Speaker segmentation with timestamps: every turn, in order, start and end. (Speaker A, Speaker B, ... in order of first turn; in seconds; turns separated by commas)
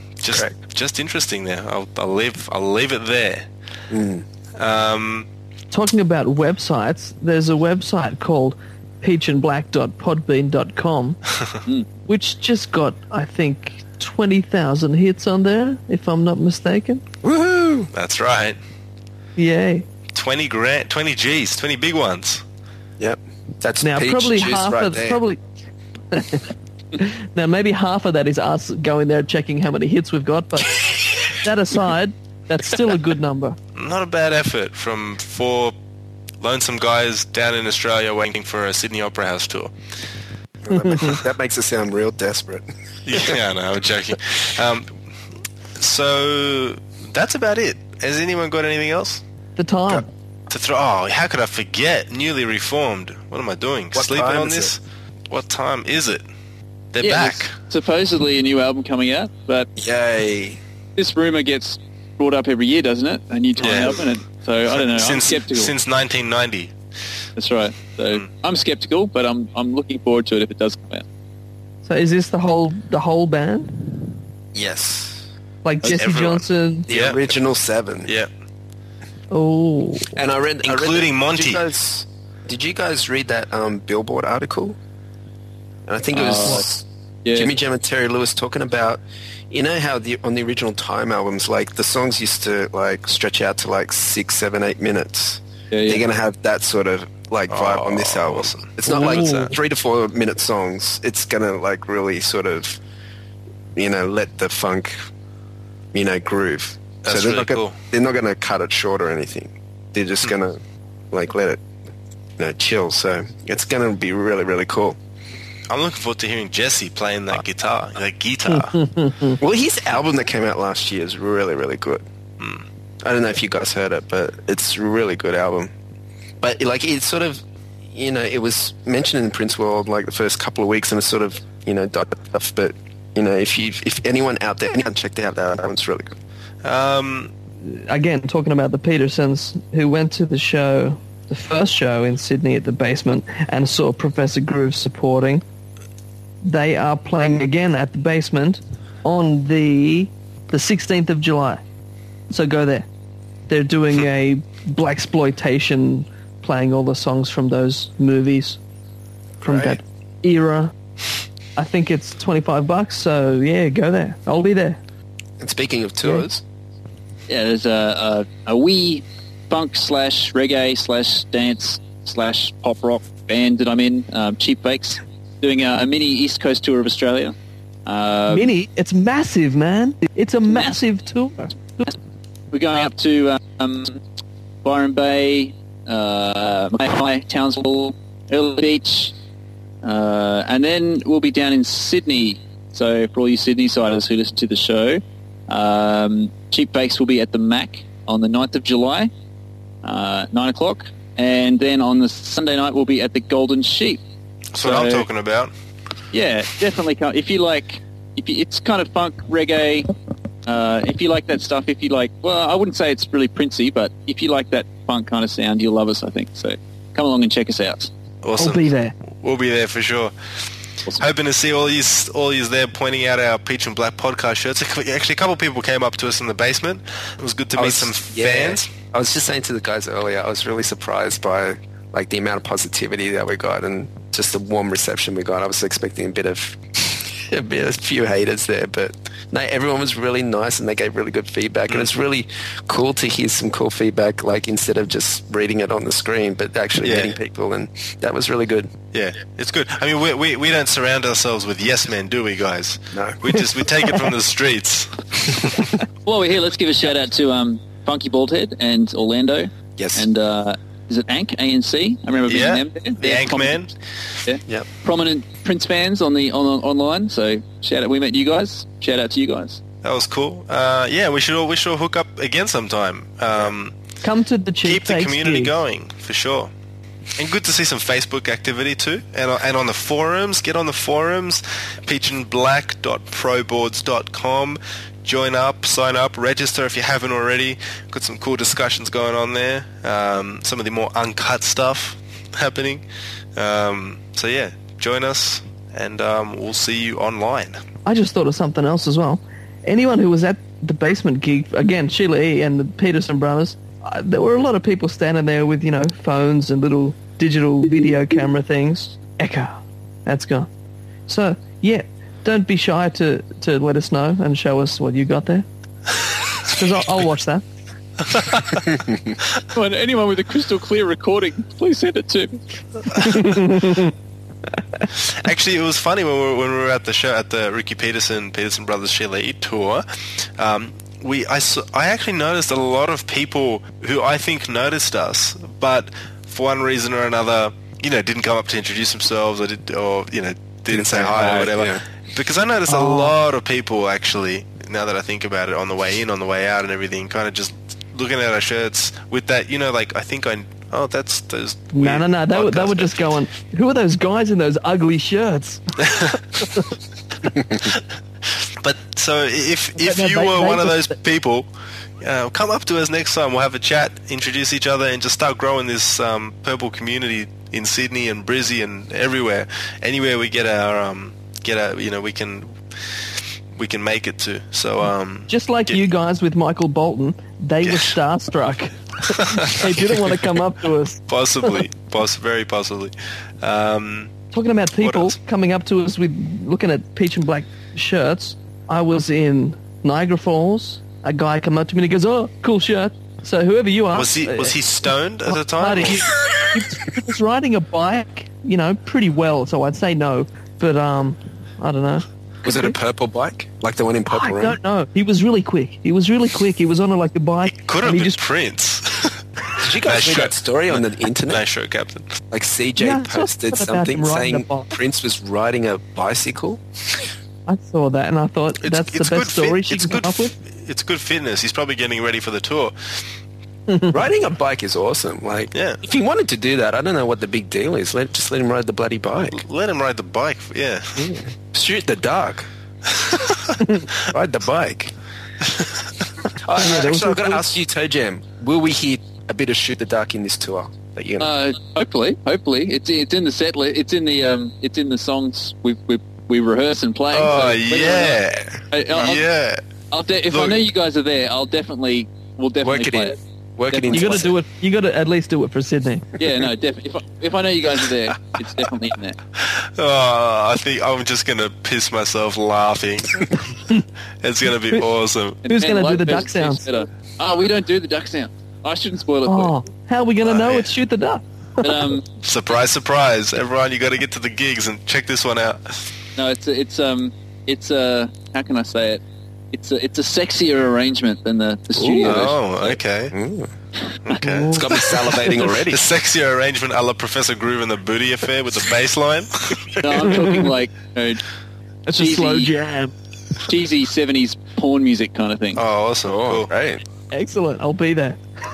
Speaker A: 0.2-3.5, Speaker B: 0.3-0.6, Speaker B: 3.9-4.2, Speaker A: 4.6-5.3, Speaker C: 5.7-11.2, Speaker C: 12.1-17.0, Speaker B: 17.2-17.9, Speaker A: 17.9-18.6, Speaker C: 19.4-19.9, Speaker A: 20.1-22.4, Speaker B: 23.0-25.2, Speaker C: 23.8-25.4, Speaker C: 26.1-33.6, Speaker A: 33.8-35.7, Speaker A: 36.4-39.7, Speaker B: 40.6-43.4, Speaker C: 40.7-41.1, Speaker A: 43.0-45.0, Speaker A: 45.8-49.2, Speaker C: 49.6-50.1, Speaker A: 49.9-56.2, Speaker B: 53.9-54.7, Speaker A: 56.9-57.5, Speaker D: 57.0-59.7, Speaker B: 59.8-60.6, Speaker D: 61.0-65.7, Speaker A: 63.6-64.0, Speaker B: 63.7-64.0, Speaker A: 64.7-66.7, Speaker D: 67.3-71.0, Speaker C: 71.8-73.9, Speaker B: 74.5-75.3, Speaker C: 75.6-76.9, Speaker A: 75.9-77.2, Speaker B: 76.9-78.1, Speaker C: 79.3-80.2, Speaker B: 80.1-84.8, Speaker A: 80.6-81.6, Speaker B: 85.9-102.8, Speaker D: 86.1-86.7, Speaker D: 87.2-87.5, Speaker D: 95.7-96.0, Speaker A: 97.5-98.7, Speaker C: 98.8-99.6, Speaker B: 103.8-105.0, Speaker B: 105.9-110.6, Speaker A: 107.0-107.8, Speaker B: 111.1-111.6, Speaker B: 112.4-115.0, Speaker A: 115.7-118.8, Speaker C: 118.5-119.4, Speaker B: 119.4-122.0, Speaker A: 122.4-122.7, Speaker B: 123.0-125.7, Speaker B: 126.4-136.1, Speaker A: 136.6-137.3, Speaker C: 137.6-145.4, Speaker C: 146.4-151.6, Speaker C: 152.3-152.9, Speaker C: 153.5-158.6, Speaker B: 159.4-159.8, Speaker C: 159.4-160.7, Speaker C: 161.6-164.8, Speaker B: 165.4-166.4, Speaker D: 167.3-177.3, Speaker D: 177.8-178.5, Speaker C: 178.3-181.9, Speaker D: 182.5-184.0, Speaker D: 184.6-189.1, Speaker D: 189.8-199.1, Speaker D: 199.8-204.0, Speaker A: 204.5-205.5, Speaker D: 204.6-205.1, Speaker D: 206.1-209.9, Speaker D: 210.4-217.9, Speaker A: 218.2-220.4, Speaker C: 218.4-218.9, Speaker A: 221.0-228.7, Speaker B: 227.5-248.7, Speaker A: 246.8-247.1, Speaker A: 248.9-255.7, Speaker B: 252.9-253.3, Speaker D: 256.1-263.7, Speaker B: 259.8-260.1, Speaker A: 262.3-263.7, Speaker D: 264.2-269.6, Speaker A: 269.8-273.8, Speaker C: 274.0-275.5, Speaker A: 274.6-276.5, Speaker A: 277.2-292.8, Speaker A: 293.4-297.6, Speaker C: 297.8-309.5, Speaker C: 310.1-310.5, Speaker C: 311.1-315.4, Speaker C: 316.4-317.4, Speaker A: 318.1-318.6, Speaker D: 319.5-322.4, Speaker A: 322.9-323.5, Speaker C: 323.0-323.9, Speaker A: 324.9-353.0, Speaker B: 340.7-341.8, Speaker C: 342.7-343.1, Speaker C: 351.7-355.6, Speaker C: 356.1-356.7, Speaker A: 357.5-361.5, Speaker C: 359.8-361.0, Speaker A: 362.0-375.8, Speaker C: 375.3-381.6, Speaker A: 377.6-377.9, Speaker A: 379.1-380.0, Speaker A: 381.1-384.1, Speaker C: 384.3-394.6, Speaker A: 384.8-385.1, Speaker A: 393.9-396.4, Speaker C: 395.2-402.8, Speaker B: 402.4-404.6, Speaker C: 404.1-408.2, Speaker A: 407.4-409.2, Speaker B: 409.6-411.4, Speaker A: 409.8-412.2, Speaker B: 412.3-416.6, Speaker C: 412.8-414.7, Speaker C: 417.5-420.3, Speaker A: 418.6-423.1, Speaker C: 423.7-423.9, Speaker B: 423.9-429.4, Speaker A: 425.5-425.8, Speaker A: 429.3-431.1, Speaker B: 430.9-432.5, Speaker A: 432.9-433.6, Speaker B: 434.0-434.9, Speaker A: 435.4-435.9, Speaker B: 436.4-441.3, Speaker C: 436.6-437.6, Speaker D: 441.2-449.3, Speaker A: 447.1-449.6, Speaker D: 449.9-453.2, Speaker A: 450.3-450.6, Speaker B: 452.6-454.3, Speaker D: 453.7-454.2, Speaker C: 453.9-456.1, Speaker D: 456.2-459.2, Speaker A: 459.4-463.5, Speaker A: 464.2-465.4, Speaker D: 465.4-469.5, Speaker C: 465.5-466.8, Speaker C: 469.2-471.7, Speaker A: 470.2-470.7, Speaker D: 471.6-472.0, Speaker A: 472.2-475.9, Speaker D: 476.2-479.0, Speaker D: 479.5-482.8, Speaker B: 481.8-482.3, Speaker A: 482.0-483.1, Speaker B: 483.1-483.5, Speaker A: 484.1-489.9, Speaker C: 484.2-485.5, Speaker B: 484.5-485.8, Speaker D: 489.8-491.2, Speaker C: 491.9-492.9, Speaker D: 491.9-492.5, Speaker D: 493.5-495.6, Speaker A: 495.5-496.5, Speaker B: 496.0-496.8, Speaker C: 497.1-498.2